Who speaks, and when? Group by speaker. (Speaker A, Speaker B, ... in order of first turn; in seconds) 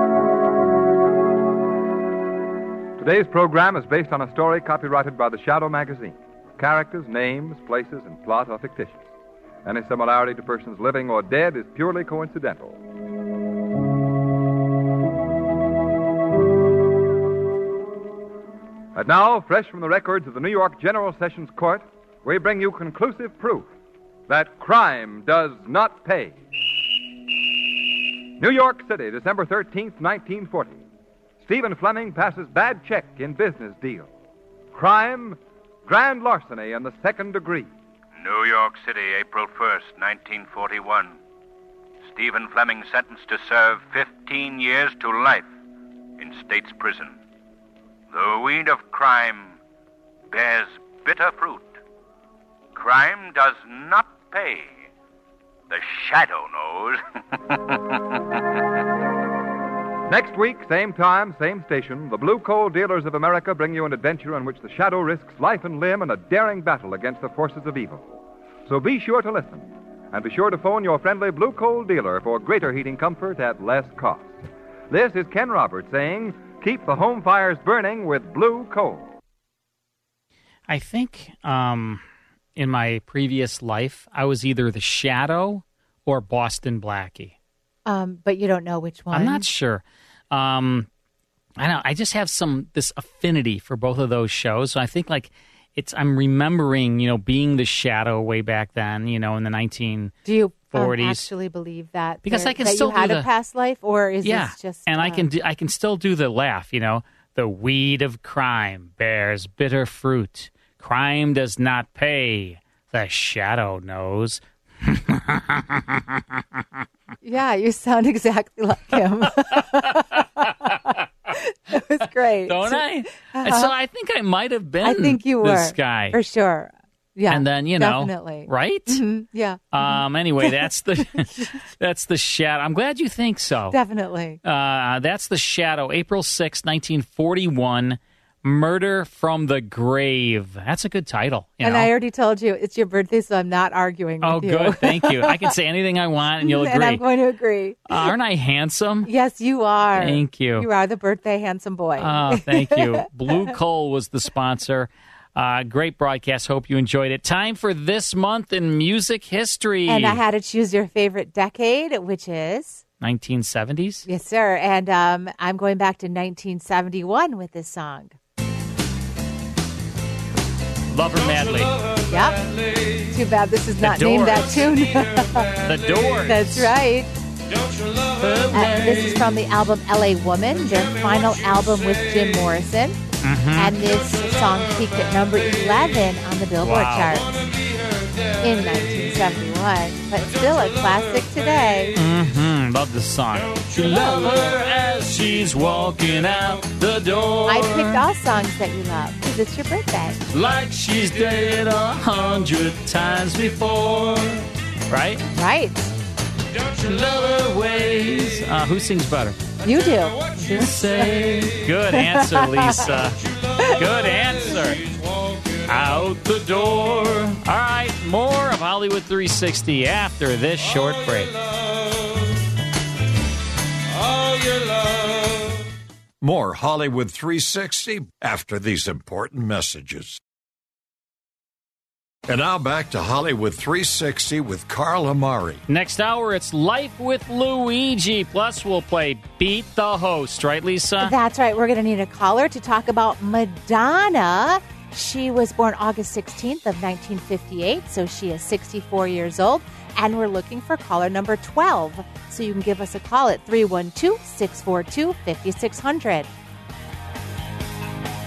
Speaker A: 3.0-9.1, 9.7-12.8, 18.9-23.7, 24.3-26.4, 28.4-30.9, 31.4-34.1, 34.7-37.7, 60.1-79.1
Speaker B: 38.2-41.2, 42.0-45.5, 46.2-47.2, 48.1-49.6, 50.3-51.8, 52.7-54.9, 55.7-58.0
Speaker C: 80.7-82.0, 82.6-87.3, 89.1-90.9, 91.6-100.2, 100.7-101.3, 102.2-103.3, 104.2-116.0, 122.5-126.2, 127.3-129.0, 129.7-133.8, 134.4-141.9, 144.2-147.0, 147.9-149.1, 149.9-150.7, 152.0-160.2, 163.0-164.1, 170.9-171.8, 173.8-174.6, 175.6-176.7, 178.1-179.2, 183.2-183.8, 186.6-187.3, 191.9-198.0, 200.3-205.3, 206.7-209.4, 210.5-213.2, 213.7-214.8, 215.6-221.4, 235.7-241.1
Speaker D: 87.9-89.5, 100.2-105.3, 117.2-123.7, 124.8-130.5, 133.7-134.4, 141.6-145.5, 146.4-148.0, 149.1-153.0, 159.9-162.8, 164.1-168.2, 172.1-172.4, 173.0-175.5, 176.3-177.1, 178.5-183.0, 183.6-187.4, 188.4-192.0, 197.5-200.2, 205.3-205.9, 209.6-211.2, 211.9-212.9, 241.0-256.3
Speaker E: 226.2-230.2, 232.3-235.6